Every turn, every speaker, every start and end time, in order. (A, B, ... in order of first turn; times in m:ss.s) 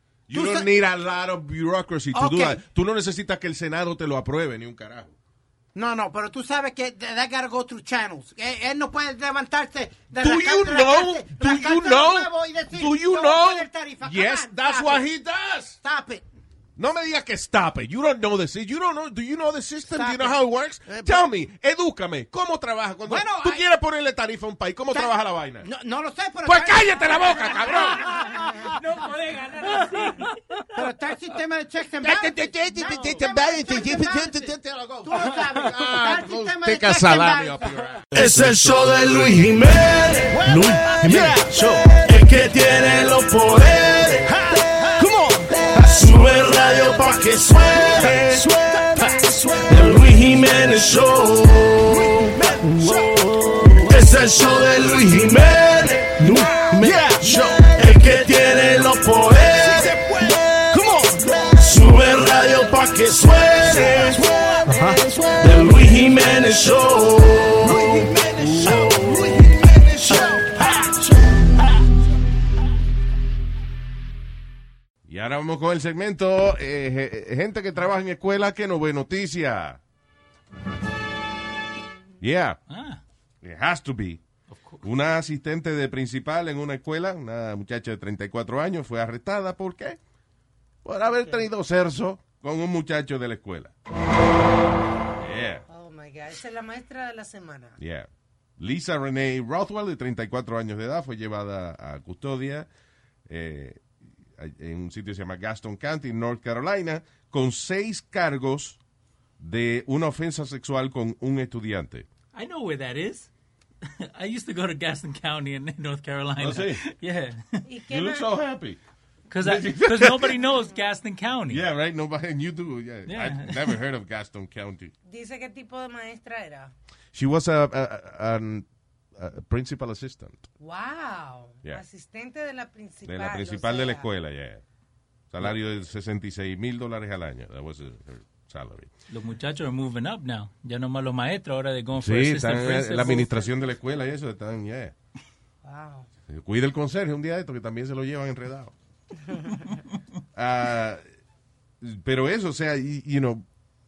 0:00.3-0:05.2 A
0:00.3-0:00.7 B
0:02.1-0:02.6 B
0:05.8-0:15.0 B
0:10.2-0:15.8 A
0:15.8-0:16.2 B
0:16.8-0:25.7 A
0:19.9-0:21.2 B
0:23.1-0:23.6 B
0:24.9-0:27.0 B
0:26.4-0:28.2 A
0:27.6-0:28.4 B
0:28.1-0:30.4 C
0:30.8-0:34.5 B
0:32.0-0:38.5 A
0:35.0-0:37.6 B
0:38.1-1:00.1 D
1:00.7-1:11.0 D
1:15.1-1:19.8 A
1:22.2-1:22.6 A
1:22.7-1:23.0 C
1:23.4-1:24.2 A
1:24.5-1:24.8 C
1:24.8-1:30.0 A
1:30.8-1:33.7 A
1:31.0-1:31.4 E
1:35.2-1:35.6 A
1:35.7-1:37.8 E
1:37.8-1:38.1 A
1:38.6-1:42.7 A
1:43.3-1:43.8 A
1:44.4-1:48.8 A
1:49.4-1:52.1 A
1:52.3-1:53.3 C
1:54.2-1:57.6 C
1:56.4-1:56.8 A
1:57.6-1:58.4 E
1:57.9-1:58.8 A
1:59.3-2:01.6 C
1:59.4-2:00.4 A
2:01.5-2:04.9 A
2:03.1-2:03.8 C
2:05.1-2:06.7 E
2:07.1-2:10.5 A
2:10.6-2:14.1 E
2:13.0-2:14.6 A
2:15.3-2:18.9 A
2:19.1-2:23.4 C
2:22.0-2:24.9 A
2:25.6-2:26.1 E
2:26.3-2:28.7 A
2:30.4-2:31.0 A
2:31.8-2:33.5 A